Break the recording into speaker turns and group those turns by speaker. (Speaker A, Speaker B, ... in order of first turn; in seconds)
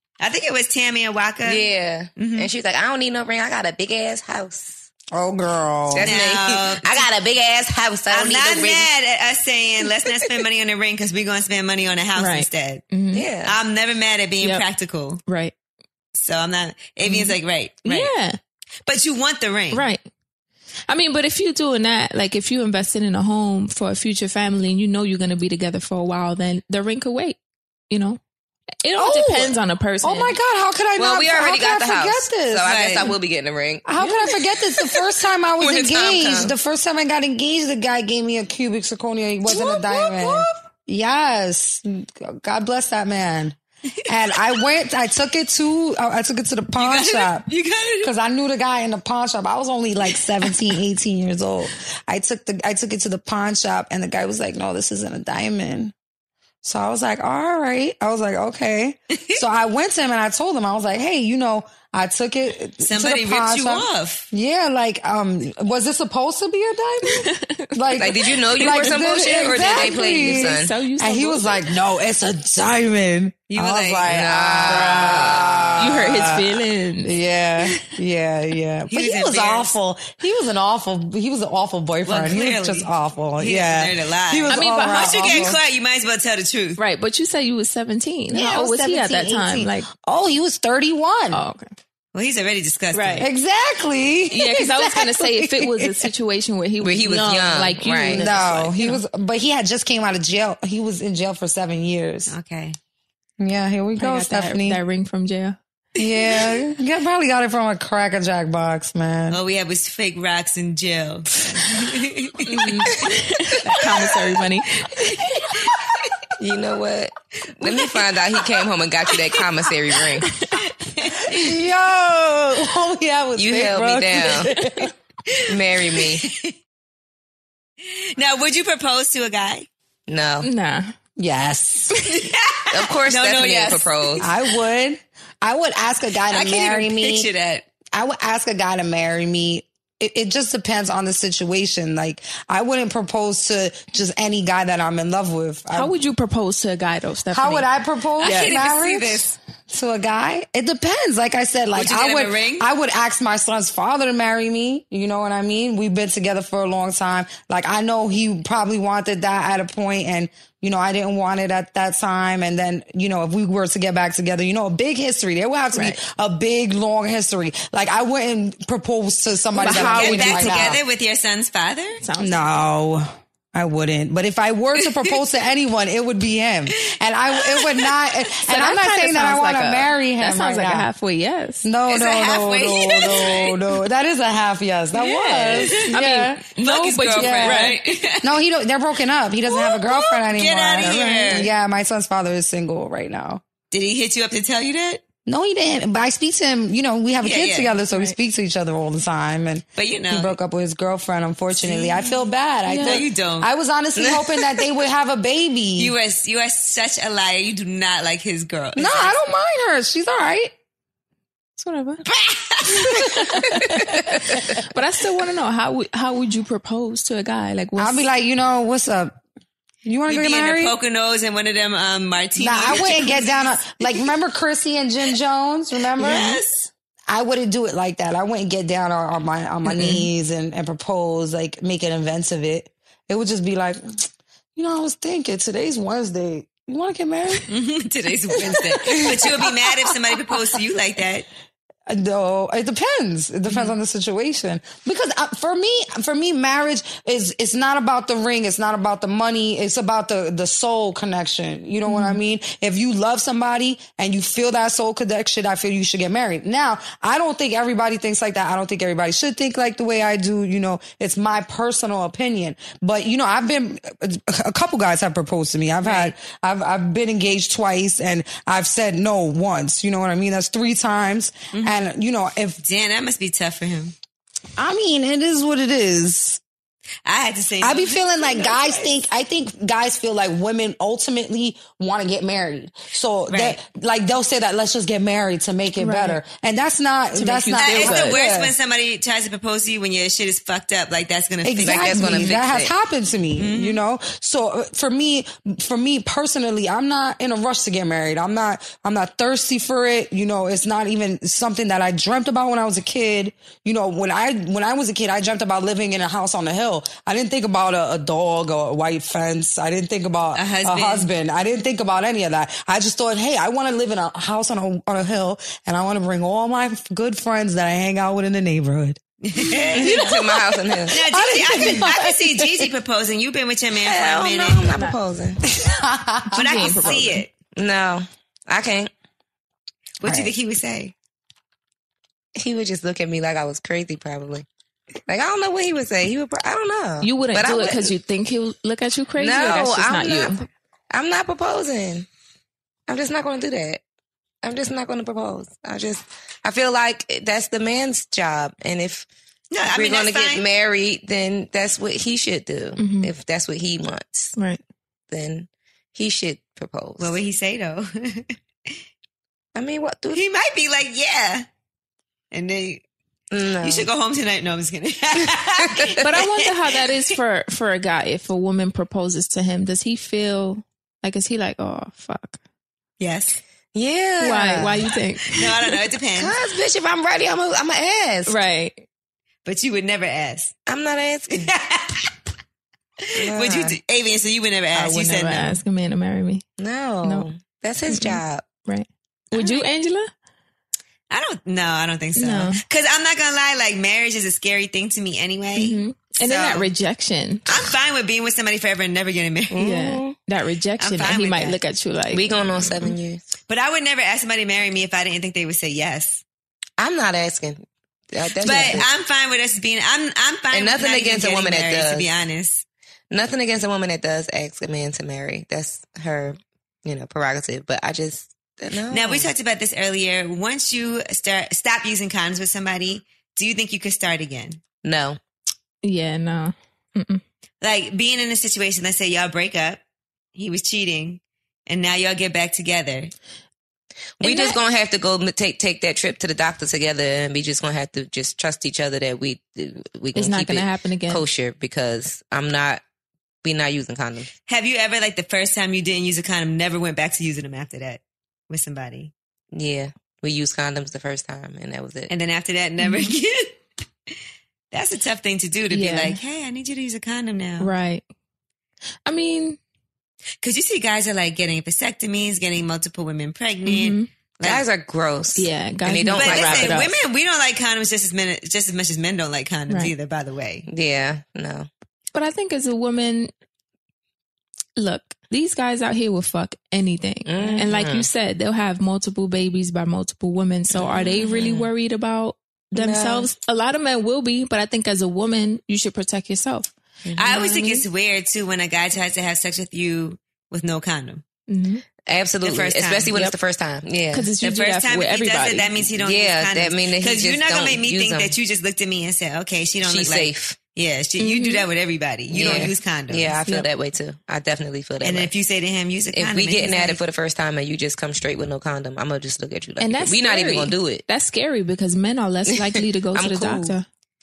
Speaker A: 0.2-2.5, 6.0-7.1, 8.1-12.8, 13.4-15.2, 16.2-18.1, 18.9-19.9, 32.6-33.2, 39.5-40.5, 46.8-48.1, 62.8-64.3, 73.5-74.1, 78.9-79.7, 82.1-86.8, 92.1-93.3, 102.3-102.8, 106.0-106.6, 109.3-113.0, 115.2-115.8, 117.6-121.5, 125.9-126.5, 127.9-129.7, 132.1-134.4, 136.3-137.7, 148.2-149.4, 151.8-152.7, 169.6-172.0, 174.8-175.1, 176.7-177.9, 181.9-183.6, 186.6-188.3, 189.5-191.5, 193.7-195.0, 197.2-197.7, 199.8-200.4, 201.6-202.2, 202.8-203.5, 205.8-209.2, 212.3-212.6, 220.1-223.7, 226.0-226.7, 237.5-241.3, 265.8-266.1, 271.5-271.8, 272.6-273.9, 277.1-279.0, 283.3-283.6, 287.6-292.4, 293.4-293.8, 310.4-311.1, 319.2-320.1, 320.9-324.8, 326.3-327.3, 330.0-330.9, 349.5-350.4, 357.0-358.4, 360.1-361.5, 362.3-362.8, 363.6-366.9, 373.0-373.4, 375.3-376.4, 379.4-380.5, 381.3-382.1, 383.2-385.6, 389.3-389.7, 391.1-396.7, 397.5-399.6, 400.8-401.6, 403.5-406.2, 408.4-412.6, 418.9-424.6, 427.6-429.8, 430.4-433.1, 444.5-449.1, 452.1-453.6, 454.7-457.7, 460.4-464.7, 466.2-470.7, 487.2-491.2, 492.4-493.1, 494.4-503.4, 505.0-507.0
Speaker B: 1.4-4.9, 5.9-8.9, 13.1-13.6, 31.0-33.9, 35.6-36.5, 68.0-70.8, 74.1-75.8, 96.8-98.4, 116.4-120.2, 123.4-124.5, 125.5-126.2, 130.1-130.5, 132.7-134.2, 204.0-204.2, 291.6-292.7, 319.8-320.9, 323.8-325.4, 327.6-328.9, 332.4-334.5, 335.1-337.9, 339.2-340.4, 340.9-342.1, 342.9-343.8, 344.4-349.1, 349.7-354.3, 355.1-357.2, 359.6-360.2, 363.3-363.9, 373.7-374.8, 376.2-378.3, 380.7-381.5, 383.2-383.8, 386.6-388.5, 399.5-400.1, 402.1-403.2, 406.8-408.9, 410.5-412.1, 413.1-419.3, 424.8-425.2, 434.2-442.8, 443.4-444.3, 449.5-452.1, 464.4-466.9, 470.7-471.7, 477.2-478.1, 480.7-481.7, 482.8-483.3, 487.1-487.7, 492.0-494.3, 495.9-498.4, 499.8-500.6, 502.3-505.3, 506.1-511.0, 512.5-513.8
Speaker C: 5.1-6.2, 29.0-33.1, 33.9-47.5, 48.0-55.9, 56.6-85.6, 88.3-91.4, 93.2-96.1, 98.1-102.3, 103.4-104.8, 106.0-109.4, 121.3-124.9, 131.2-132.0, 134.2-137.3, 137.9-145.9, 147.3-170.8, 172.2-180.9, 181.6-186.4, 187.2-193.4, 195.3-205.9, 208.8-210.5, 217.8-219.2, 219.8-220.8, 222.4-226.4, 227.1-233.8, 234.6-237.5, 238.4-240.5, 241.9-272.6, 274.6-276.4, 277.6-288.6, 291.4-322.7, 325.6-326.8, 330.0-330.3
Speaker D: 12.2-13.3, 15.3-15.5, 17.1-18.4, 19.7-20.0, 20.9-27.4, 27.9-28.2, 28.8-30.4, 67.1-71.6, 74.7-75.2, 75.8-77.1, 84.5-85.5, 86.8-89.9, 91.3-91.7, 92.9-93.3, 94.3-99.0, 104.0-105.6, 112.5-115.1, 120.2-120.6, 124.4-124.9, 130.4-130.9, 145.7-147.7, 148.2-148.5, 165.8-166.0, 169.5-170.8, 172.0-172.5, 178.5-181.7, 185.0-187.8, 190.8-191.4, 197.9-198.2, 202.7-203.0, 211.6-212.0, 212.9-218.1, 229.7-230.1, 251.9-252.2, 285.8-286.2, 287.1-288.2, 326.4-327.2, 337.0-340.4, 352.8-353.1, 366.0-372.4, 374.2-375.8, 378.3-378.9, 384.7-386.4, 387.0-387.3, 387.9-390.1, 392.2-392.6, 395.6-397.4, 399.6-402.3, 425.8-427.2, 434.2-434.6, 440.1-441.2, 452.8-453.1, 455.7-456.2, 457.6-458.1, 459.1-459.6, 463.6-464.1, 465.4-466.9, 472.1-473.3, 474.8-486.7, 487.3-487.7, 491.5-491.9, 494.1-495.9, 501.2-501.7, 502.4-502.7, 509.8-513.9